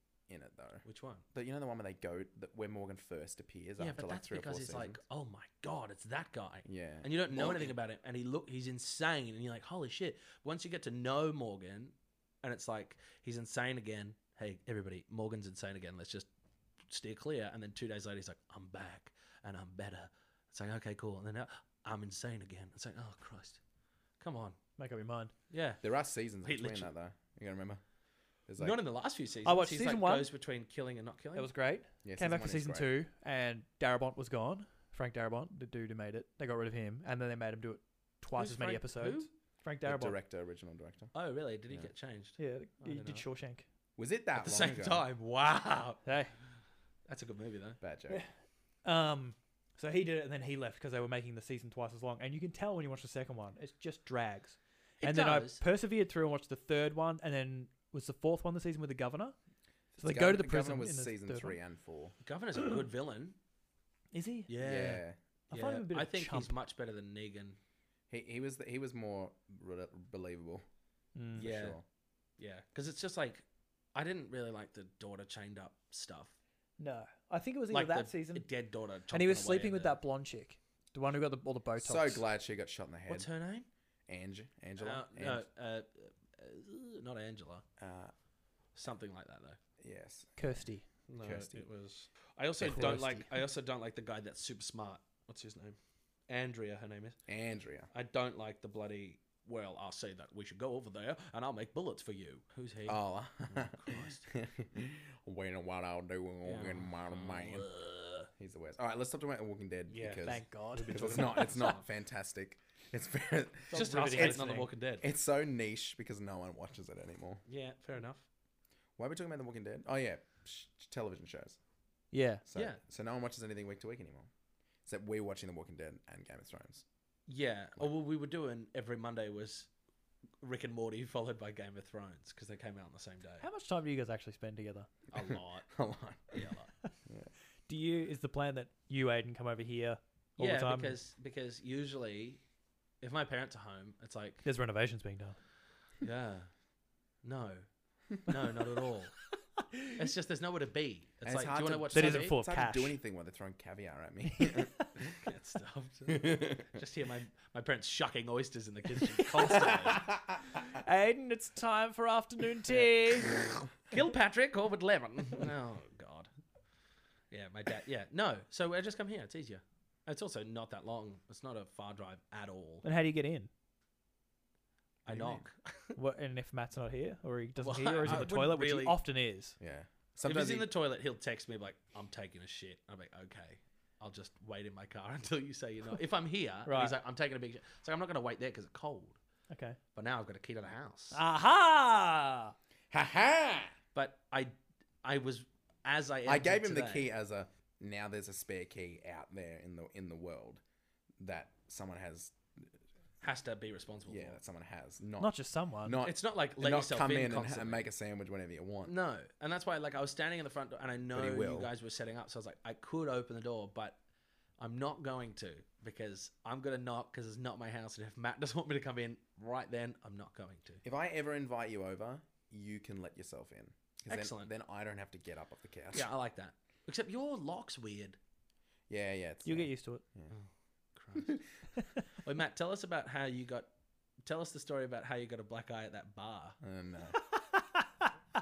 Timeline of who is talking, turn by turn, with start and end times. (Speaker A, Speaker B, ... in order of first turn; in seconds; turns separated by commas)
Speaker A: 0.3-5.0, Speaker B: 0.8-1.2, Speaker B: 3.8-16.3, Speaker A: 6.7-7.7, Speaker B: 16.9-23.6, Speaker B: 24.2-24.6, Speaker C: 24.8-25.3, Speaker B: 25.5-25.8, Speaker A: 25.8-27.8, Speaker B: 26.4-26.9, Speaker A: 28.5-28.8, Speaker B: 28.6-31.5, Speaker C: 29.4-30.3, Speaker C: 31.3-40.2, Speaker A: 32.0-32.9, Speaker B: 38.4-39.3, Speaker A: 39.8-41.1, Speaker B: 41.1-43.2, Speaker C: 42.4-43.6, Speaker A: 44.0-45.1, Speaker B: 44.4-46.0, Speaker C: 46.0-46.3, Speaker B: 47.1-47.8, Speaker A: 47.8-48.2, Speaker C: 48.8-59.3, Speaker B: 55.0-55.6, Speaker C: 59.9-61.6, Speaker A: 60.0-62.1, Speaker B: 62.2-63.3, Speaker C: 64.1-64.5, Speaker B: 64.5-67.6, Speaker A: 64.6-65.2, Speaker C: 65.5-66.5, Speaker A: 68.1-70.6, Speaker C: 71.1-71.5, Speaker A: 71.3-71.8, Speaker B: 71.4-71.8, Speaker B: 72.4-73.4, Speaker B: 73.9-76.3, Speaker C: 76.8-78.5, Speaker B: 77.7-80.0, Speaker C: 79.1-82.2, Speaker A: 81.8-83.3, Speaker B: 83.1-83.7, Speaker A: 84.1-85.4, Speaker B: 84.8-87.6, Speaker A: 87.8-88.1, Speaker B: 88.7-89.6, Speaker A: 89.8-90.4, Speaker C: 90.4-90.8, Speaker B: 91.1-95.8, Speaker A: 91.2-91.6, Speaker A: 92.6-93.2, Speaker C: 92.6-93.3, Speaker B: 96.3-97.2, Speaker A: 97.3-97.9, Speaker B: 97.9-104.3, Speaker A: 102.8-107.7, Speaker B: 106.4-108.3, Speaker A: 108.4-117.4, Speaker B: 109.9-111.8, Speaker C: 110.2-111.5, Speaker C: 113.7-114.7, Speaker B: 113.7-115.0, Speaker B: 117.5-118.2, Speaker A: 119.0-121.6, Speaker C: 122.1-122.4, Speaker A: 122.5-124.3, Speaker A: 124.8-126.8, Speaker B: 127.3-129.7, Speaker B: 130.4-133.5, Speaker C: 133.4-134.9, Speaker B: 135.1-135.7, Speaker A: 135.7-136.4, Speaker B: 136.3-136.7, Speaker C: 137.7-141.0, Speaker B: 140.4-142.4, Speaker B: 143.0-144.4, Speaker C: 144.4-145.4, Speaker B: 146.0-146.5, Speaker B: 147.2-147.7, Speaker B: 148.2-149.1, Speaker C: 149.6-150.0, Speaker B: 149.9-152.3, Speaker A: 151.2-155.2, Speaker C: 151.9-153.0, Speaker C: 154.4-154.9, Speaker B: 155.1-160.1, Speaker A: 156.1-156.7, Speaker C: 159.0-160.0, Speaker A: 159.5-160.4, Speaker C: 160.6-163.4, Speaker B: 163.8-166.3, Speaker B: 167.3-172.9, Speaker C: 172.8-173.5, Speaker B: 175.1-176.0, Speaker A: 175.1-175.4, Speaker C: 175.9-179.6, Speaker B: 177.6-179.0, Speaker A: 179.6-180.7, Speaker B: 180.2-189.2, Speaker C: 186.7-187.0, Speaker C: 189.5-189.8, Speaker B: 189.9-191.2, Speaker C: 191.1-192.5, Speaker A: 192.9-193.7, Speaker B: 193.9-197.1, Speaker A: 196.2-200.6, Speaker A: 201.2-202.7, Speaker B: 203.2-204.4, Speaker A: 204.1-208.9, Speaker C: 205.2-206.0, Speaker B: 206.0-207.8, Speaker B: 208.8-214.0, Speaker A: 211.1-211.7, Speaker B: 214.6-220.8, Speaker A: 220.8-226.1, Speaker B: 224.1-224.5, Speaker B: 225.9-228.2, Speaker A: 228.9-230.3, Speaker C: 229.4-230.0, Speaker B: 230.3-231.3, Speaker B: 232.2-233.7, Speaker B: 234.2-236.6, Speaker A: 236.6-237.2